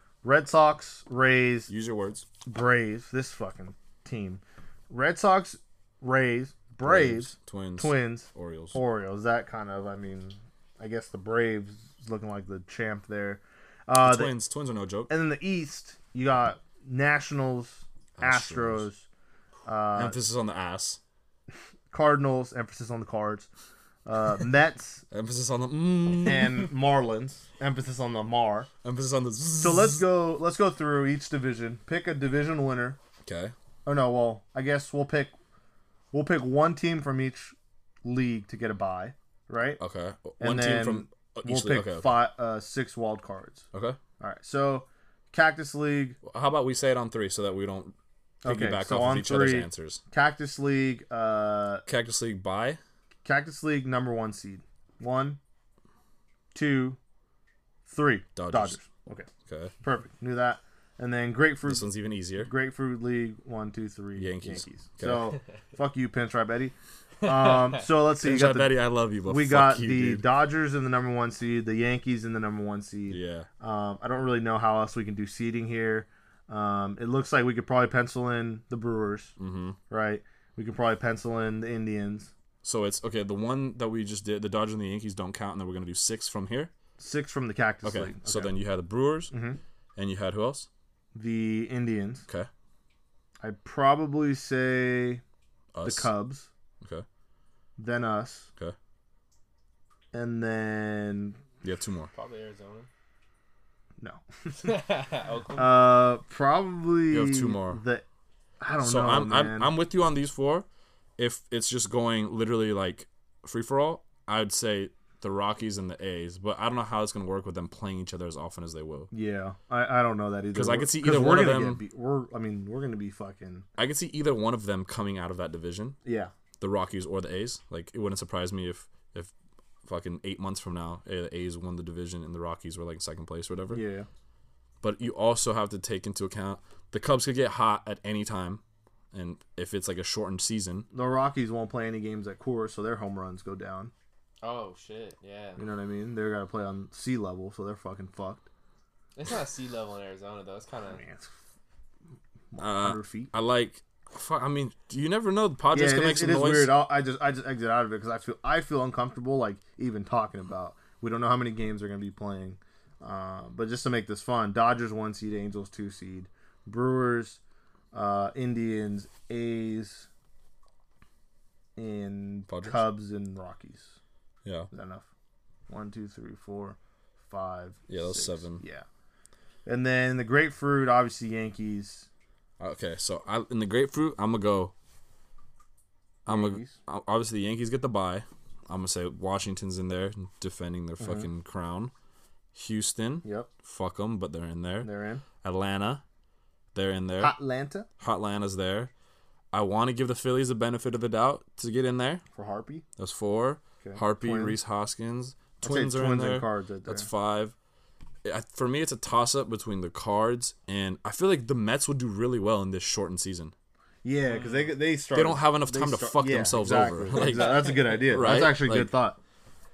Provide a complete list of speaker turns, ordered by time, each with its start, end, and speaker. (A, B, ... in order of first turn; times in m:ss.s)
0:00.2-0:01.7 A
0:01.7-0:02.2 B
0:02.4-0:14.3 A
0:06.8-0:08.8 B
0:14.0-0:15.1 B
0:15.1-0:19.1 A
0:18.2-0:18.9 B
0:19.6-0:20.2 A
0:20.0-0:21.0 B
0:21.9-0:23.5 A
0:24.1-0:25.0 A
0:25.1-0:26.7 B
0:26.2-0:28.7 A
0:28.8-0:30.0 B
0:29.6-0:33.0 A
0:33.2-0:33.5 B
0:33.9-0:35.3 A
0:36.1-0:39.8 A
0:39.8-0:42.2 B
0:40.4-0:43.7 A
0:43.7-0:44.0 B
0:44.2-0:46.2 A
0:46.2-0:47.9 B
0:48.4-0:51.8 A
0:48.4-0:50.0 B
0:51.9-0:52.8 B
0:53.2-0:55.4 A
0:56.5-0:57.0 A
0:57.9-0:59.3 A
0:58.4-0:58.8 B
0:59.5-0:59.7 B
0:59.8-1:01.9 A
1:01.7-1:02.5 B
1:02.4-1:19.3 A
1:04.2-1:05.4 B
1:07.3-1:07.8 C
1:08.2-1:10.3 B
1:13.1-1:13.5 B
1:19.4-1:19.8 B
1:19.9-1:22.3 A
1:22.6-1:26.7 B
1:27.0-1:28.5 A
1:27.8-1:29.3 B
1:29.3-1:29.6 A
1:30.0-1:30.7 B
1:31.1-1:32.3 A
1:33.4-1:35.2 A
1:35.7-1:36.1 B
1:35.8-1:36.5 A
1:37.8-1:38.5 A
1:40.1-1:41.4 A
1:41.6-1:42.1 B
1:42.1-1:42.9 C
1:44.0-1:44.8 A
1:44.6-1:45.7 C
1:45.6-1:48.0 A
1:47.1-1:47.8 B
1:48.6-1:49.7 A
1:48.8-1:50.7 B
1:51.2-1:59.1 B
1:59.1-2:03.7 A
2:00.5-2:01.8 B
2:03.8-2:06.0 B
2:06.0-2:06.3 A
2:06.6-2:09.3 B
2:09.8-2:13.8 B
2:13.7-2:14.1 A
2:14.8-2:20.9 B
2:20.9-2:23.9 A
2:24.4-2:25.6 C
2:25.6-2:28.5 A
2:29.2-2:31.0 C
2:30.9-2:31.3 A
2:32.5-2:33.3 A
2:32.6-2:36.7 B
2:35.7-2:47.4 A
2:47.9-2:50.1 A
2:51.8-2:54.0 A
2:52.5-2:52.9 B
2:54.4-2:54.7 B
2:54.7-2:55.1 A
2:55.7-2:56.8 A
2:57.3-2:58.9 A
2:57.9-2:58.6 B
2:59.7-3:02.1 A
3:02.6-3:04.7 B
3:06.3-3:11.9 B
3:06.3-3:06.8 A
3:11.0-3:11.3 A
3:12.5-3:14.9 B
3:13.2-3:13.5 A
3:14.8-3:15.2 A
3:15.4-3:16.0 B
3:16.7-3:17.4 B
3:17.2-3:17.9 A
3:18.0-3:18.9 B
3:19.5-3:22.2 B
3:22.3-3:22.8 A
3:23.0-3:27.6 B
3:23.8-3:24.6 A
3:25.6-3:27.1 A
3:28.2-3:33.5 B
3:34.0-3:39.2 A
3:34.3-3:34.7 C
3:35.1-3:38.9 B
3:37.1-3:38.1 C